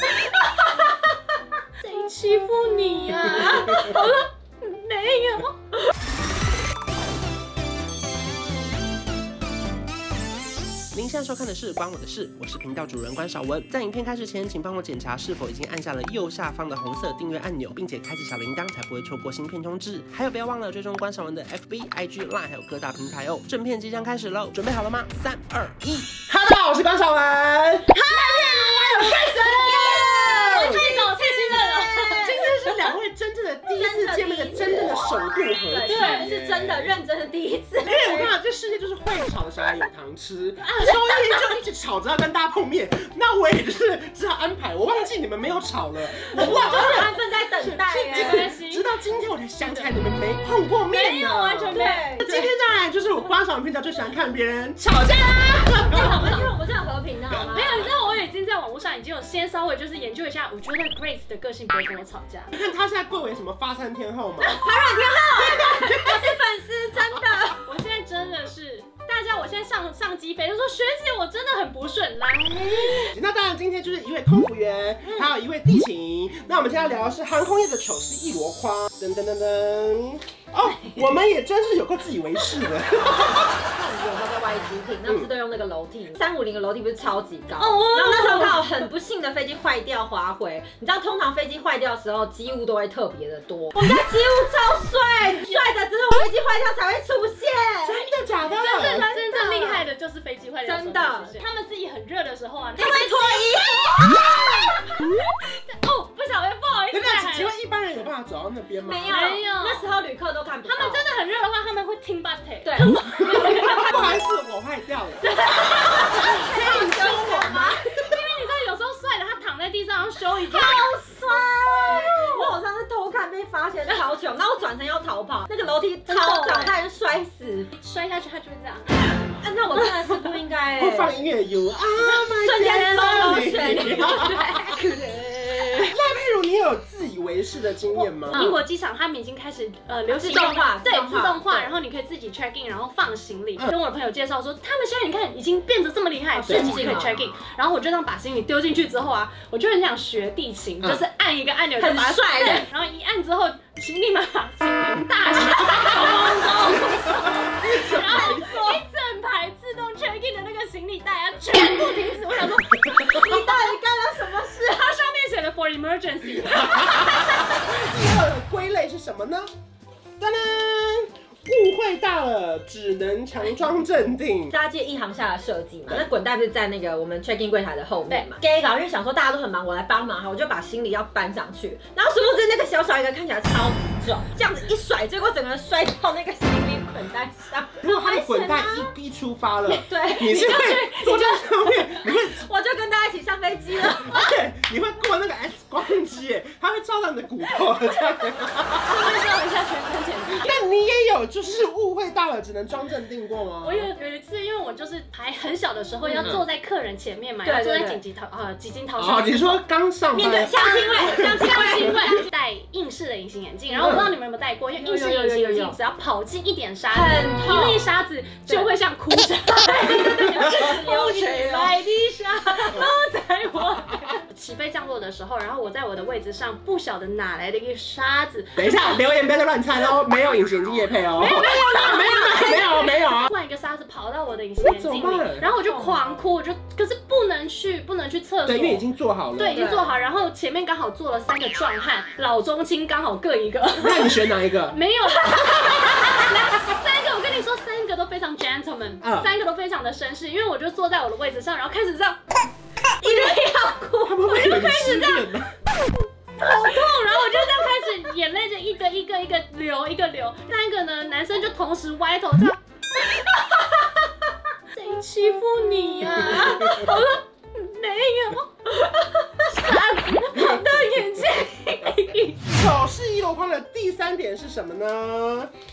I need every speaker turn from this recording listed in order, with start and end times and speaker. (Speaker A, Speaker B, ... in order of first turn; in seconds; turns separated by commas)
Speaker A: 1.8-4.2, Speaker B: 3.3-5.5, Speaker C: 10.9-27.9, Speaker B: 27.9-32.5, Speaker A: 28.3-32.8, Speaker C: 28.6-30.8, Speaker C: 32.2-37.0, Speaker B: 33.7-38.4, Speaker A: 35.8-36.3, Speaker C: 37.8-56.5, Speaker B: 46.1-48.5, Speaker A: 48.0-48.9, Speaker A: 50.9-52.1, Speaker B: 51.3-52.5, Speaker B: 55.8-58.0, Speaker A: 56.0-56.4, Speaker C: 57.3-58.0, Speaker A: 57.5-62.5, Speaker C: 62.5-64.7, Speaker A: 64.4-64.7, Speaker B: 64.6-67.6, Speaker C: 65.2-66.3, Speaker A: 67.6-73.1, Speaker C: 73.0-83.5, Speaker B: 83.1-98.1, Speaker A: 87.6-88.8, Speaker C: 97.8-99.1, Speaker A: 98.5-107.5, Speaker B: 98.7-99.8, Speaker B: 100.6-101.4, Speaker B: 102.8-104.8, Speaker C: 106.9-109.2, Speaker B: 108.8-111.0, Speaker A: 109.1-109.9, Speaker A: 110.6-113.9, Speaker B: 112.6-114.2, Speaker C: 113.4-115.2, Speaker A: 115.2-120.9, Speaker B: 115.5-117.9, Speaker C: 116.1-117.5, Speaker B: 120.5-127.7, Speaker A: 121.9-122.6, Speaker A: 126.0-126.8, Speaker A: 127.7-129.0, Speaker B: 129.1-131.2, Speaker C: 130.8-134.6, Speaker B: 132.4-135.0, Speaker A: 134.6-135.8, Speaker C: 135.8-138.4, Speaker A: 137.9-163.6, Speaker B: 138.3-138.6, Speaker B: 140.1-141.7, Speaker B: 146.3-147.3, Speaker C: 146.4-146.9, Speaker B: 151.8-152.7, Speaker B: 156.0-156.3, Speaker B: 157.6-158.8, Speaker C: 157.8-158.3, Speaker B: 162.9-164.9, Speaker A: 164.4-167.2, Speaker C: 166.4-169.5, Speaker C: 170.2-174.5, Speaker B: 174.5-188.9, Speaker A: 178.1-178.3, Speaker C: 187.8-192.4, Speaker B: 189.7-194.4, Speaker C: 193.8-199.0, Speaker A: 198.8-200.6, Speaker C: 200.3-203.9, Speaker A: 203.6-209.6, Speaker B: 206.0-206.4, Speaker B: 207.4-208.0, Speaker C: 209.0-211.8, Speaker B: 210.1-212.1, Speaker A: 210.5-229.0, Speaker C: 213.7-214.1, Speaker B: 214.8-215.8, Speaker B: 216.9-217.9, Speaker B: 218.5-218.7, Speaker B: 219.8-221.8, Speaker C: 220.4-220.7, Speaker C: 228.6-233.3, Speaker A: 231.2-238.8, Speaker B: 231.2-232.6, Speaker C: 234.6-235.4, Speaker B: 235.6-236.3, Speaker C: 238.4-239.6, Speaker A: 239.3-252.4, Speaker B: 239.5-239.9, Speaker C: 243.8-244.8, Speaker B: 245.3-246.1, Speaker C: 249.0-249.3, Speaker B: 253.0-255.0, Speaker A: 253.0-253.3, Speaker C: 254.0-255.5, Speaker A: 254.3-255.2, Speaker A: 256.4-262.6, Speaker B: 257.0-257.9, Speaker A: 264.7-268.8, Speaker B: 266.2-267.1, Speaker B: 268.8-269.4, Speaker A: 269.4-272.6, Speaker C: 272.4-275.5